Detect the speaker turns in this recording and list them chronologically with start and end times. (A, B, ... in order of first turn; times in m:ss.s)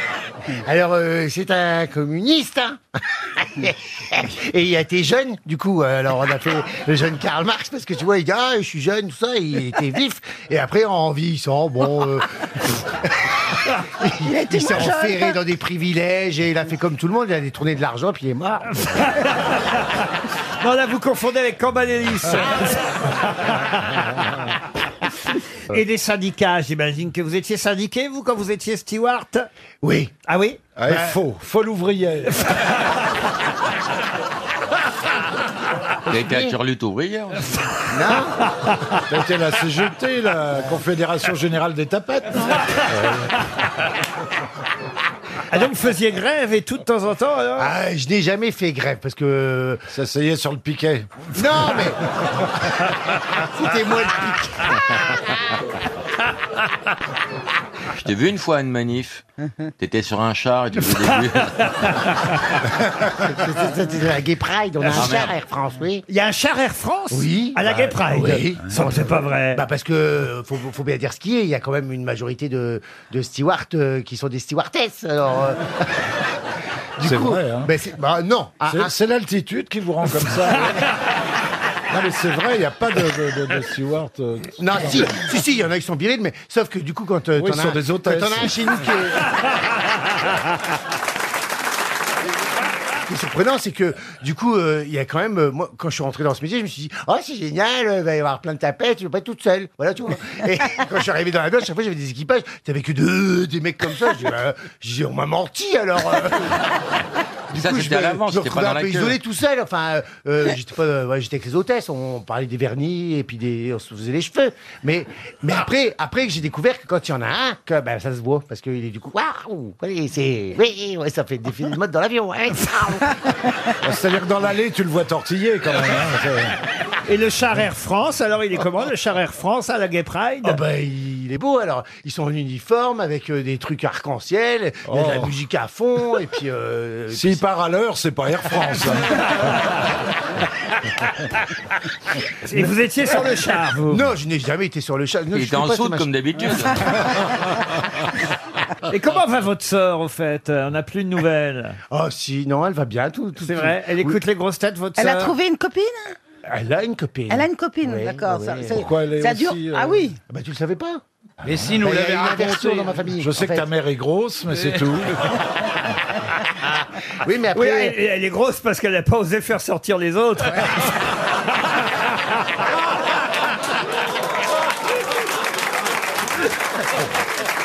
0:00.6-0:02.8 A
0:03.6-0:12.3 A
0:12.8-0:18.7 A
0:14.3-0:15.3 B
0:18.8-0:20.1 C
0:20.6-0:24.2 C
0:25.7-0:29.5 C
0:29.8-0:30.1 A
0:30.3-0:30.6 C
0:30.8-0:32.5 D
0:36.1-0:37.5 E
0:37.9-0:38.3 A
0:39.1-0:43.4 D
0:45.5-0:47.7 C
0:47.6-0:49.8 A
0:49.9-0:51.9 D
0:51.3-0:52.0 A
0:53.2-0:55.0 A
0:58.0-0:59.2 E
0:59.8-1:01.7 E
1:00.8-1:02.4 C
1:03.1-1:06.0 A
1:04.9-1:05.4 E
1:06.1-1:09.6 C
1:07.1-1:15.9 A
1:17.0-1:18.9 A
1:17.0-1:17.7 D
1:18.7-1:20.9 D
1:21.9-1:25.2 D
1:24.6-1:29.3 A
1:27.4-1:28.8 D
1:33.1-1:46.6 A
1:47.5-1:49.2 E
1:47.5-2:03.1 A
2:03.8-2:06.5 D
2:07.1-2:10.6 C
2:10.4-2:17.4 A
2:14.9-2:15.3 D
2:17.1-2:19.6 D
2:22.4-2:24.0 C
2:23.9-2:26.2 A
2:25.3-2:27.1 E
2:28.9-2:31.8 C
2:31.9-2:34.2 A
2:33.4-2:35.3 C
2:35.0-2:35.9 B
2:36.5-2:38.9 A
2:37.3-2:38.6 B
2:38.7-2:40.1 D
2:39.2-2:40.2 B
2:40.3-2:43.7 A
2:41.5-2:42.4 D
2:43.1-2:45.2 D
2:46.7-2:48.0 A
2:47.5-2:50.9 C